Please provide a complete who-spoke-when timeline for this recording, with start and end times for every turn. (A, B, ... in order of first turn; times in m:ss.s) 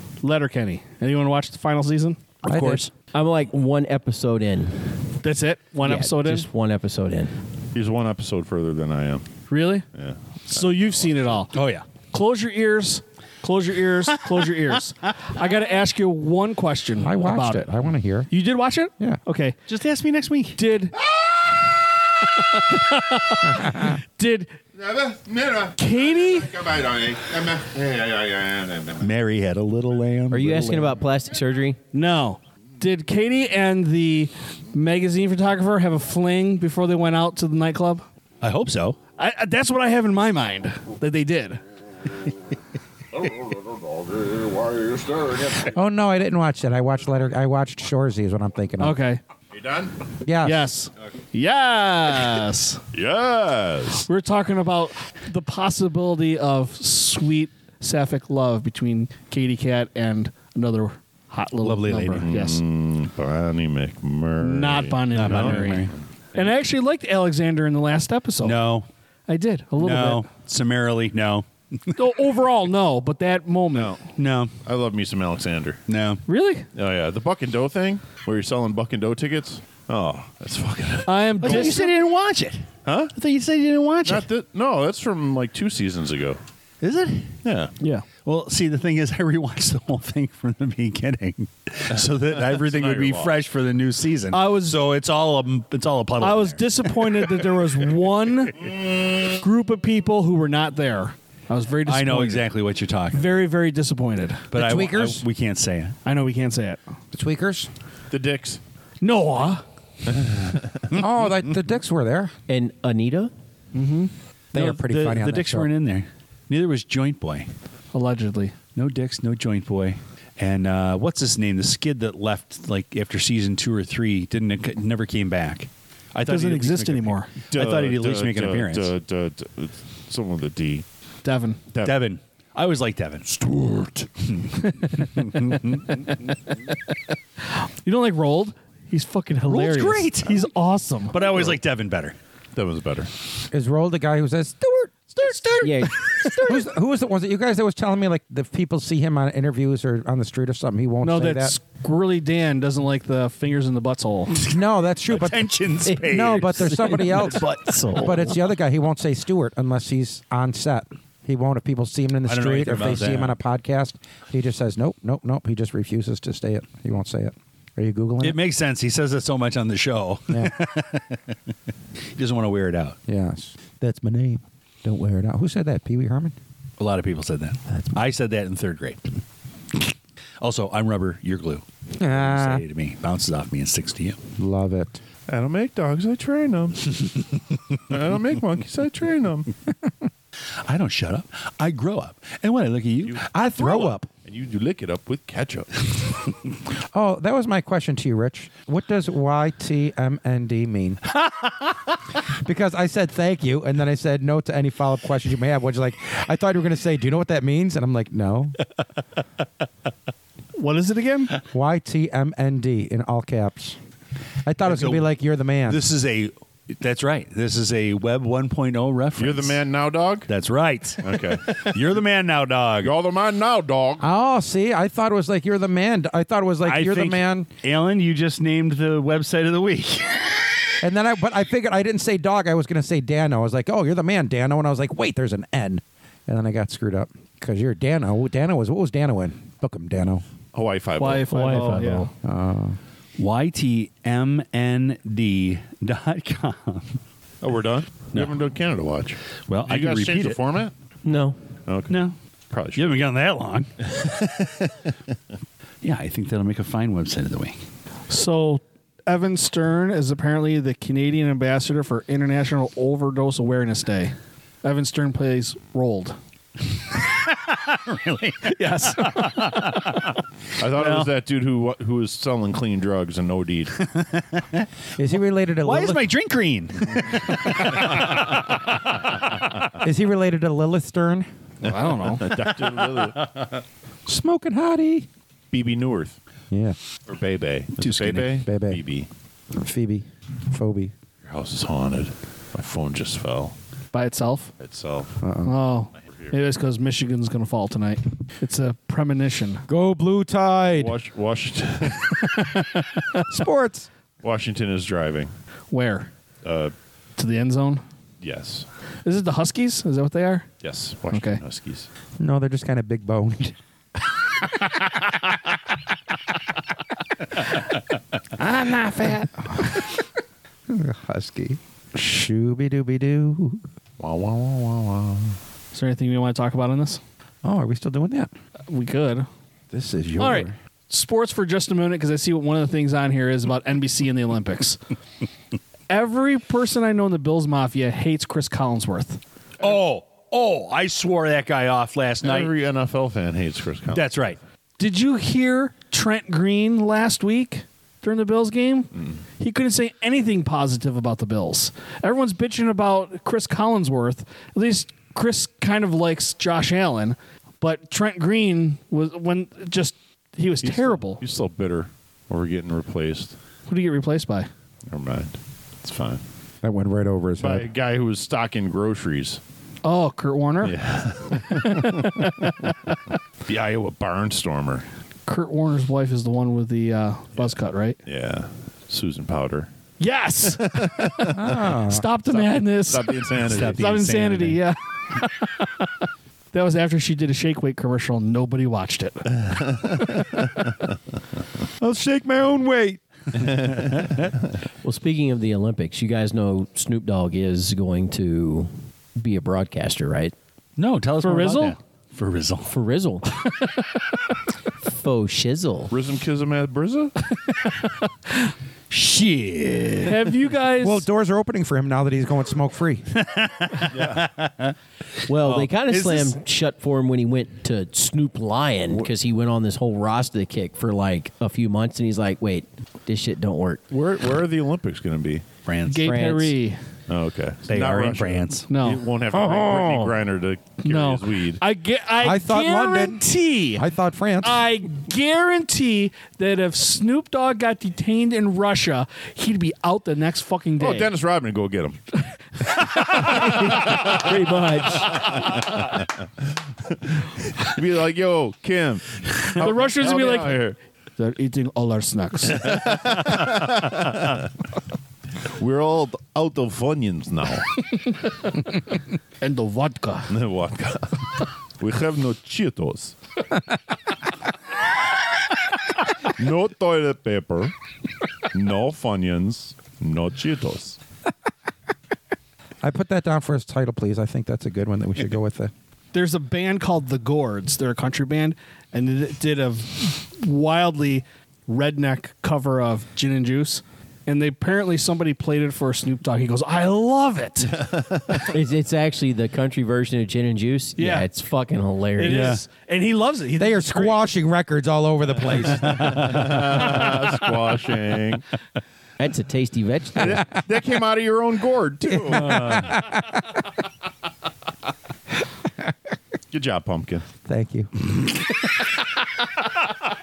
0:00.2-0:02.4 A
0:02.4-0:02.8 B
0:02.4-0:02.9 C
0:03.1-0:05.0 D
0:05.2-0:06.5 A
0:05.8-0:07.3 D
0:07.7-0:09.4 E
0:09.5-0:09.8 A
0:09.9-0:11.3 E
0:10.5-0:17.7 A
0:11.5-0:11.9 C
0:17.0-0:18.3 B
0:18.3-0:19.6 A
0:19.7-0:20.6 C
0:20.6-0:21.0 A
0:22.2-0:24.6 A
0:23.6-0:23.9 B
0:24.8-0:29.0 E
0:25.8-0:26.6 A
0:29.0-0:31.0 C
0:30.3-0:31.8 D
0:31.9-0:38.0 A
0:38.4-0:39.0 C
0:39.2-0:41.6 A
0:43.2-0:45.6 E
0:45.6-0:49.0 B
0:48.8-0:49.2 A
0:49.5-0:50.0 E
0:50.2-0:50.6 B
0:50.4-0:52.8 A
0:52.9-0:54.1 E
0:54.1-1:02.6 A
1:01.6-1:02.3 C
1:02.2-1:06.4 E
1:04.4-1:08.6 A
1:05.1-1:05.9 C
1:08.4-1:08.9 C
1:09.3-1:10.3 A
1:09.8-1:12.0 C
1:12.0-1:14.0 A
1:13.7-1:14.0 E
1:14.2-1:14.5 C
1:14.6-1:15.8 E
1:15.9-1:16.2 C
1:16.3-1:16.7 A
1:16.8-1:21.8 E
1:21.1-1:21.9 A
1:21.4-1:24.3 C
1:22.8-1:23.1 E
1:24.0-1:26.4 E
1:26.8-1:27.4 C
1:27.4-1:27.7 E
1:27.8-1:28.1 A
1:28.2-1:37.5 C
1:32.3-1:33.4 E
1:34.3-1:34.8 A
1:36.2-1:38.7 A
1:39.2-1:42.5 A
1:41.8-1:43.3 C
1:43.1-1:44.5 A
1:44.5-1:46.0 C
1:44.6-1:45.2 B
1:46.0-1:46.8 A
1:47.1-1:47.7 B
1:48.1-1:48.6 E
1:49.0-1:49.6 A
1:50.1-1:50.6 E
1:50.9-1:52.3 B
1:52.5-1:53.3 D
1:53.7-1:54.1 A
1:54.5-1:55.7 B
1:54.5-1:57.5 C
1:57.9-1:58.6 A
1:58.7-2:08.9 C
2:06.3-2:07.3 A
2:07.5-2:10.8 E
2:11.2-2:11.7 A
2:11.7-2:12.0 E
2:11.8-2:16.0 C
2:17.5-2:21.4 A
2:19.5-2:20.5 C
2:21.1-2:22.2 C
2:22.6-2:23.1 E
2:23.5-2:25.7 B
2:25.6-2:26.6 D
2:26.4-2:31.6 B
2:31.0-2:34.3 A
2:34.3-2:37.3 C
2:34.4-2:48.4 B
2:35.9-2:38.4 D
2:42.3-2:43.4 C
2:48.2-2:51.4 C
2:50.3-2:50.6 B
2:52.2-2:53.0 C
2:53.1-2:56.4 B
2:56.8-2:59.2 C
3:00.4-3:04.2 C
3:02.0-3:02.6 B
3:04.4-3:05.0 B
3:05.3-3:07.0 E
3:07.9-3:09.5 E
3:10.6-3:13.2 C
3:13.0-3:15.9 E
3:13.3-3:14.1 B
3:16.8-3:21.0 B
3:22.3-3:28.6 B
3:30.6-3:31.4 A
3:31.5-3:33.8 B
3:34.4-3:35.8 B
3:34.6-3:35.1 C
3:35.6-3:39.6 C
3:39.2-3:40.3 E
3:40.3-3:42.9 C
3:41.0-3:41.8 E
3:42.8-3:44.1 E
3:44.0-3:47.5 B
3:46.6-3:50.6 C
3:50.8-4:00.2 B
4:00.5-4:01.3 E
4:01.0-4:02.1 A
4:01.3-4:02.1 C
4:02.2-4:02.8 B
4:03.2-4:07.0 C
4:07.4-4:10.7 E
4:09.5-4:10.4 C
4:11.0-4:11.4 D
4:11.7-4:12.0 E
4:11.9-4:12.2 C
4:12.5-4:13.1 E
4:12.8-4:13.9 C
4:15.8-4:17.6 C
4:18.1-4:26.2 A
4:26.9-4:31.1 C
4:28.5-4:29.7 A
4:30.6-4:33.8 E
4:33.9-4:34.7 C
4:35.0-4:36.1 B
4:35.6-4:38.2 C
4:39.8-4:41.3 B
4:41.6-4:42.3 A
4:41.6-4:43.3 E
4:44.1-4:45.1 B
4:45.5-4:46.2 E
4:46.5-4:46.8 B
4:47.1-4:49.1 E
4:47.8-4:48.4 C
4:48.4-4:48.8 B
4:49.5-4:50.9 B
4:51.2-4:53.6 E
4:53.9-4:54.5 A
4:54.6-4:55.2 E
4:55.2-4:55.5 B
4:55.4-4:59.6 A
4:59.7-5:01.0 B
5:00.8-5:02.7 E
5:03.3-5:03.9 B
5:04.2-5:05.3 E
5:05.7-5:06.1 A
5:06.4-5:06.7 E
5:07.2-5:07.8 A
5:08.2-5:08.7 E
5:09.0-5:10.5 A
5:10.6-5:11.9 E
5:11.1-5:11.4 A
5:12.2-5:13.6 B
5:18.4-5:19.9 B
5:20.7-5:23.6 B
5:24.0-5:25.4 E
5:25.7-5:27.0 A
5:27.4-5:28.3 B
5:28.7-5:29.3 A
5:29.7-5:30.6 B
5:30.2-5:34.8 A
5:35.9-5:39.2 A
5:39.6-5:42.5 C
5:42.2-5:44.1 E
5:43.9-5:44.4 C
5:44.8-6:01.2 A
6:00.6-6:03.4 E
6:03.7-6:04.5 A
6:04.9-6:06.2 E
6:06.6-6:07.7 B
6:07.4-6:09.4 E
6:09.8-6:10.8 A
6:10.6-6:12.7 E
6:11.6-6:12.3 A
6:13.5-6:14.8 E
6:15.3-6:18.0 A
6:17.4-6:19.7 E
6:20.0-6:25.9 A
6:20.6-6:21.4 E
6:21.3-6:22.1 B
6:22.3-6:23.9 E
6:23.4-6:24.6 C
6:26.5-6:30.2 A
6:29.4-6:30.6 E
6:31.8-6:33.0 B
6:33.4-6:34.0 E
6:34.8-6:40.3 D
6:40.8-6:42.7 C
6:41.2-6:41.8 A
6:42.7-6:43.3 D
6:43.5-6:43.9 A
6:44.8-6:45.9 D
6:45.9-6:47.2 E
6:48.9-6:50.3 C
6:50.0-6:51.0 A
6:50.8-6:53.1 B
6:53.2-6:54.8 C
6:53.9-6:54.3 E
6:55.3-7:03.8 D
6:55.3-6:56.4 C
7:03.9-7:05.4 E
7:05.7-7:06.1 C
7:05.9-7:06.8 A
7:06.0-7:06.6 D
7:07.1-7:11.6 E
7:07.7-7:08.7 C
7:08.7-7:09.0 A
7:09.3-7:10.2 B
7:10.8-7:13.8 A
7:12.2-7:13.2 B
7:13.8-7:14.6 B
7:14.4-7:21.1 A
7:20.8-7:22.2 E
7:23.1-7:24.3 E
7:23.2-7:23.4 A
7:23.2-7:25.3 D
7:25.0-7:26.2 E
7:26.9-7:30.8 E
7:29.6-7:32.7 A
7:32.6-7:34.5 E
7:35.6-7:37.9 E
7:39.4-7:40.3 A
7:40.3-7:43.2 E
7:46.3-7:47.7 E
7:48.5-7:51.0 E
7:52.8-7:55.7 B
7:56.1-8:07.9 A
8:07.9-8:08.1 E
8:08.4-8:12.6 D
8:11.0-8:11.3 A
8:12.2-8:14.2 A
8:12.3-8:12.6 C
8:13.6-8:16.4 B
8:15.9-8:18.4 E
8:16.2-8:16.4 C
8:19.2-8:20.4 D
8:20.2-8:23.0 E
8:22.1-8:23.4 B
8:26.5-8:27.3 E
8:27.5-8:28.1 B